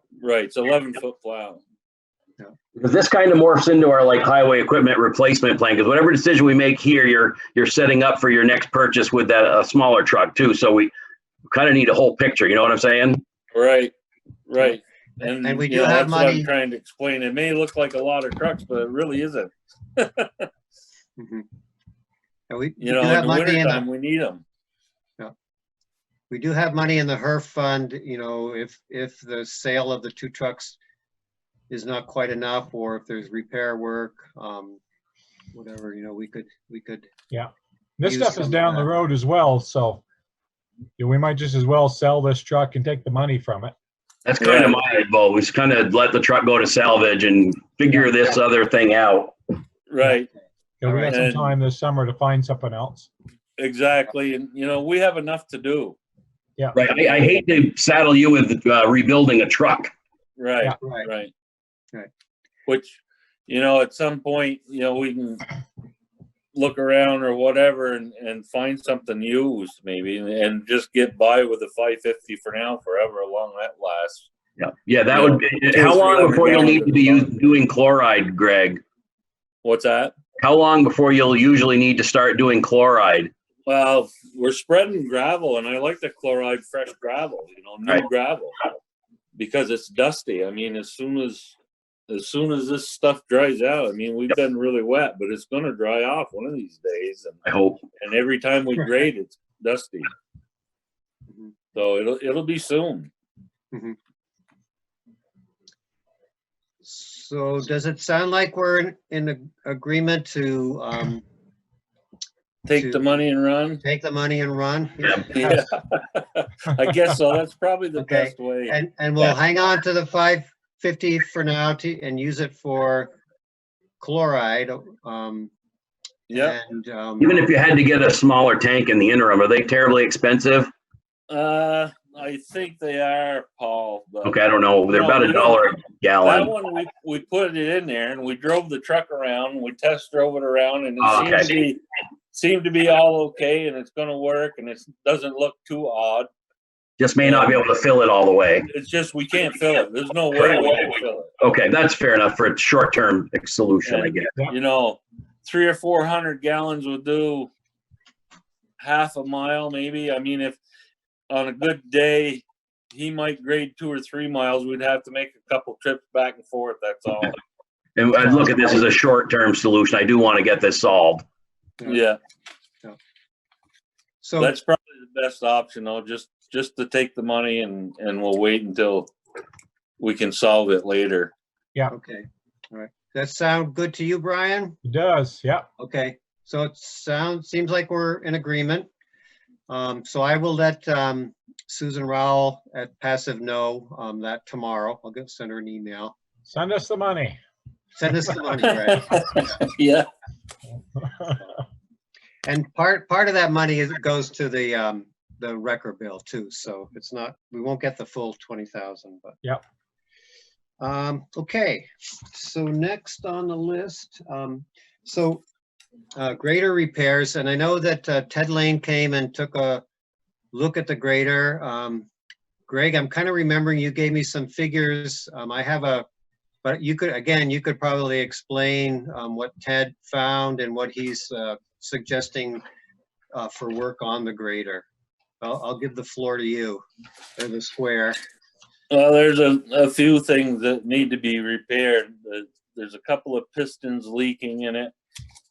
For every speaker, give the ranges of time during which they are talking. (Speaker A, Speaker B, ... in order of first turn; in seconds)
Speaker A: 0.2-1.6, 13.5-13.9, 14.5-20.5, 22.8-24.4, 44.4-44.8, 49.9-50.3, 51.1-51.5, 53.6-56.0, 57.1-57.3, 60.4-61.3, 62.7-65.4, 66.5-74.3, 75.1-77.4, 79.6-80.1, 83.7-88.6, 89.4-91.5, 92.1-97.4, 98.0-100.1, 101.7-103.1, 112.7-113.8, 115.3-119.3, 126.3-126.6, 131.3-134.4, 134.9-135.7, 136.2-141.8, 142.3-146.3, 147.2-147.6, 148.7-151.3, 153.9-157.5, 158.8-160.6, 161.3-167.4, 171.9-172.2, 174.4-179.1, 180.0-181.3, 198.6-200.1, 238.9-244.9
Speaker B: 2.8-10.9, 11.5-13.2, 44.2-49.3, 56.8-59.9, 74.6-78.8, 80.4-83.3, 97.5-97.8, 127.2-130.7, 134.2-136.5, 141.0-141.5, 147.0-148.7, 151.4-154.3, 168.0-171.2
Speaker C: 15.2-16.5, 21.2-21.4, 22.5-23.8, 26.3-30.8, 31.7-34.8, 35.5-37.1, 38.0-38.9, 50.9-51.2, 60.8-61.1, 106.8-111.2, 112.7-113.1, 113.8-115.6, 118.0-123.1, 124.0-125.5, 126.3-127.5, 168.3-168.7, 174.2-174.5, 181.9-184.8, 185.8-188.9, 189.7-196.2, 198.0-199.5, 202.4-209.4, 210.8-215.4, 216.2-219.8, 220.5-222.1, 222.7-226.1, 226.6-232.6, 233.3-234.8, 235.4-236.8, 237.4-238.2
Speaker D: 38.0-40.0, 41.0-43.7, 50.8-53.1, 184.8-185.7, 196.5-197.4